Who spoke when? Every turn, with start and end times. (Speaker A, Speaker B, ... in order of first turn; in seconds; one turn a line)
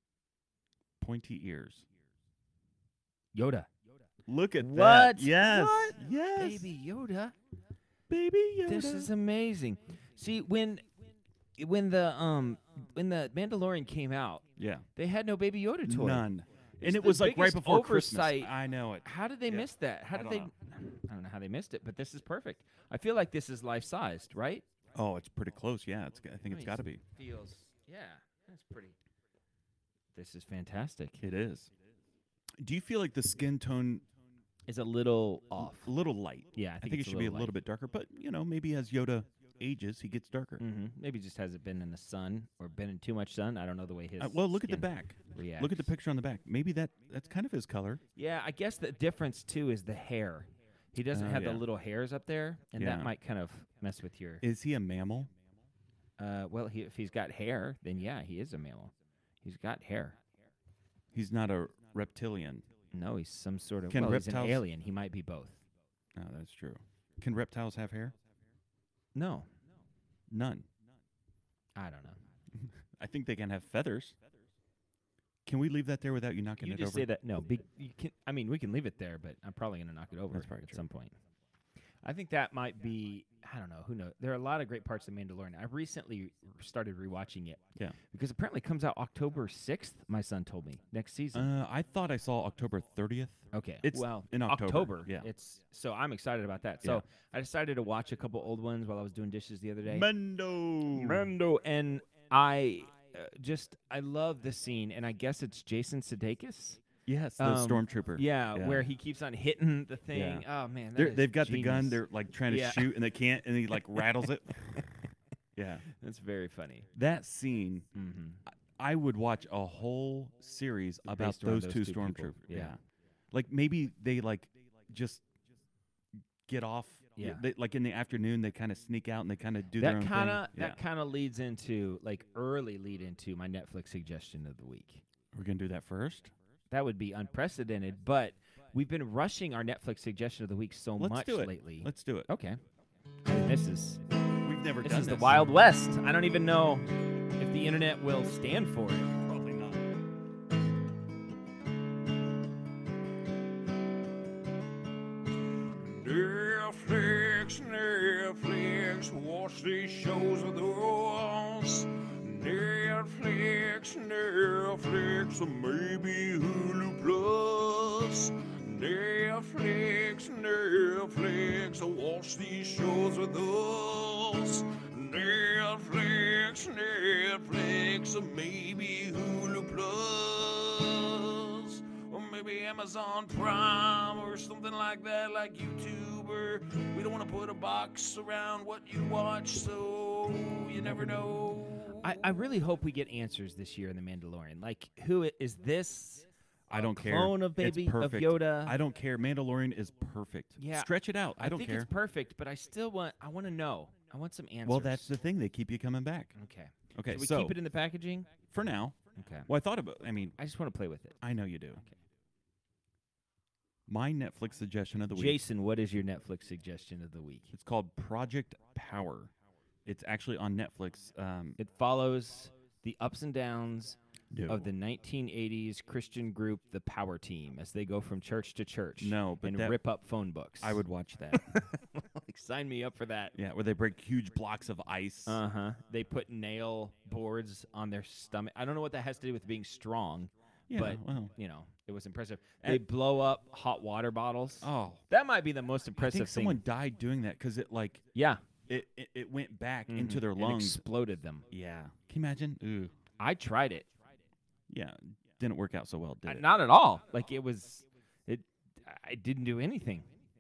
Speaker A: 1.0-1.9
Speaker B: 3.3-3.7
Speaker A: 4.3-6.7
Speaker B: 4.6-7.3
Speaker A: 8.1-9.1
Speaker B: 8.7-10.8
Speaker B: 11.6-14.4
Speaker A: 14.6-14.9
Speaker B: 15.0-16.3
Speaker A: 15.9-20.5
Speaker B: 16.8-18.5
Speaker B: 19.0-24.6
Speaker A: 24.9-27.0
Speaker B: 26.5-28.9
Speaker B: 30.1-31.2
Speaker A: 31.2-31.7
Speaker A: 32.6-34.0
Speaker B: 34.7-35.9
Speaker A: 35.6-40.6
Speaker B: 36.5-37.5
Speaker B: 40.6-45.9
Speaker A: 44.2-48.0
Speaker B: 48.2-54.4
Speaker A: 51.1-51.6
Speaker A: 52.8-53.1
Speaker A: 54.4-55.3
Speaker B: 56.2-60.2
Speaker A: 61.1-62.6
Speaker B: 62.9-65.6
Speaker A: 63.9-64.6
Speaker A: 66.2-68.1
Speaker B: 69.2-69.5
Speaker A: 70.3-70.7
Speaker B: 71.8-72.2
Speaker A: 72.6-74.2
Speaker A: 75.5-77.1
Speaker B: 76.6-81.1
Speaker A: 80.3-80.8
Speaker B: 82.0-91.5
Speaker A: 91.3-95.3
Speaker B: 93.5-100.1
Speaker A: 99.8-101.3
Speaker B: 100.9-106.8
Speaker A: 107.1-108.9
Speaker B: 107.4-113.0
Speaker A: 110.1-114.9
Speaker B: 113.7-114.1
Speaker A: 115.6-115.8
Speaker B: 115.9-116.9
Speaker A: 117.0-117.9
Speaker B: 118.0-118.4
Speaker A: 118.8-122.8
Speaker B: 121.1-122.8
Speaker A: 123.3-125.2
Speaker A: 126.5-130.8
Speaker B: 127.2-127.4
Speaker B: 129.8-135.0
Speaker A: 135.3-136.3
Speaker B: 136.7-142.6
Speaker A: 141.0-142.3
Speaker B: 143.3-144.0
Speaker A: 144.4-145.5
Speaker B: 144.8-149.2
Speaker A: 149.2-149.9
Speaker C: 155.6-192.1
Speaker B: 192.0-198.8
Speaker A: 196.7-201.9
Speaker B: 200.6-205.1
Speaker A: 204.7-206.3
Speaker B: 206.3-208.3
Speaker A: 206.9-207.6
Speaker A: 208.5-210.4
Speaker B: 209.2-209.5
Speaker B: 210.4-211.2
Speaker A: 211.2-211.8
Speaker A: 213.9-215.4
Speaker B: 215.1-217.5
Speaker A: 217.5-219.3
Speaker A: 219.8-221.6
Speaker B: 221.6-230.8
Speaker A: 224.3-224.7
Speaker A: 229.0-229.8
Speaker A: 230.6-231.6
Speaker B: 231.3-233.4
Speaker A: 233.4-235.4
Speaker B: 235.3-246.6
Speaker A: 240.7-241.3
Speaker A: 244.6-245.0
Speaker A: 246.0-248.1
Speaker B: 248.2-248.4
Speaker A: 248.7-250.8
Speaker B: 249.9-251.4
Speaker A: 251.5-252.9
Speaker B: 253.2-253.9
Speaker A: 254.7-256.5
Speaker B: 256.3-260.1